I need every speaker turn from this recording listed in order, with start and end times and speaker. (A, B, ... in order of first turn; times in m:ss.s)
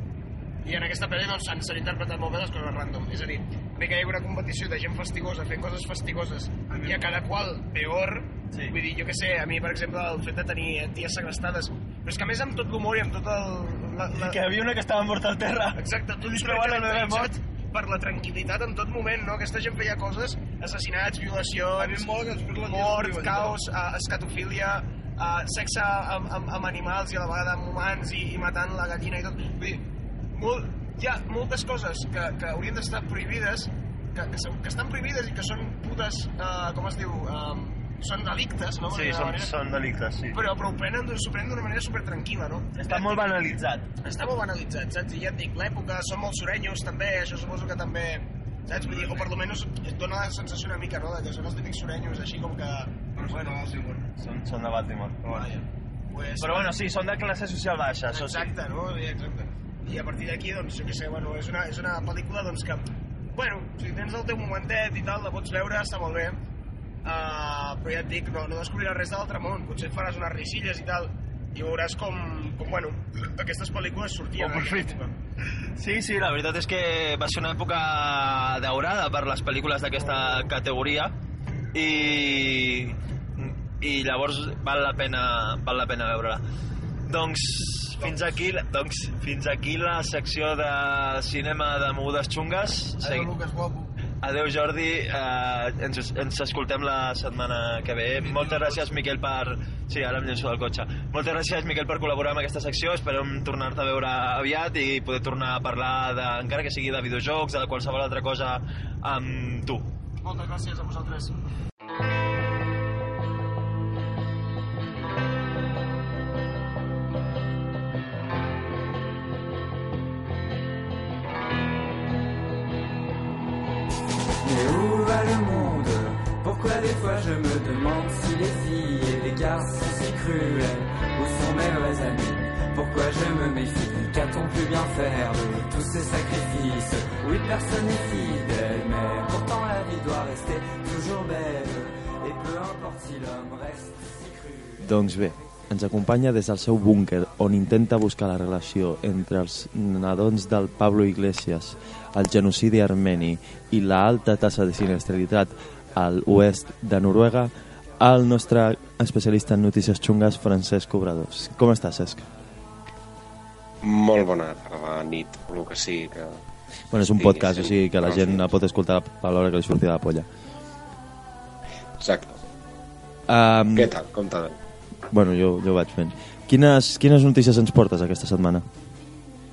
0:00.6-0:14.4 A
0:06.7-0:07.2 B
0:08.5-0:08.8 C
0:14.1-0:17.4 C
0:15.8-0:22.1 A
0:21.8-0:23.6 B
0:22.6-0:39.5 A
0:38.9-0:40.4 C
0:40.3-0:54.0 A
0:42.8-0:44.0 C
0:48.7-0:49.2 B
0:53.2-0:54.0 B
0:54.2-0:55.5 C
0:55.3-0:56.7 A
0:56.4-0:58.6 C
0:58.1-1:06.4 A
1:07.0-1:15.1 A
1:14.4-1:15.0 C
1:15.8-1:21.2 C
1:21.7-1:26.4 C
1:27.1-1:33.3 C
1:28.0-1:28.3 B
1:33.0-1:33.9 B
1:34.2-1:49.9 C
1:38.2-1:38.9 B
1:50.2-1:51.3 A
2:04.4-2:24.8 D
2:24.8-2:42.3 E
2:43.8-2:46.4 F
2:46.9-2:50.3 E
2:47.1-2:48.5 F
2:52.0-2:52.4 F
2:53.3-2:53.9 E
2:53.7-2:54.6 F
2:55.1-2:58.7 E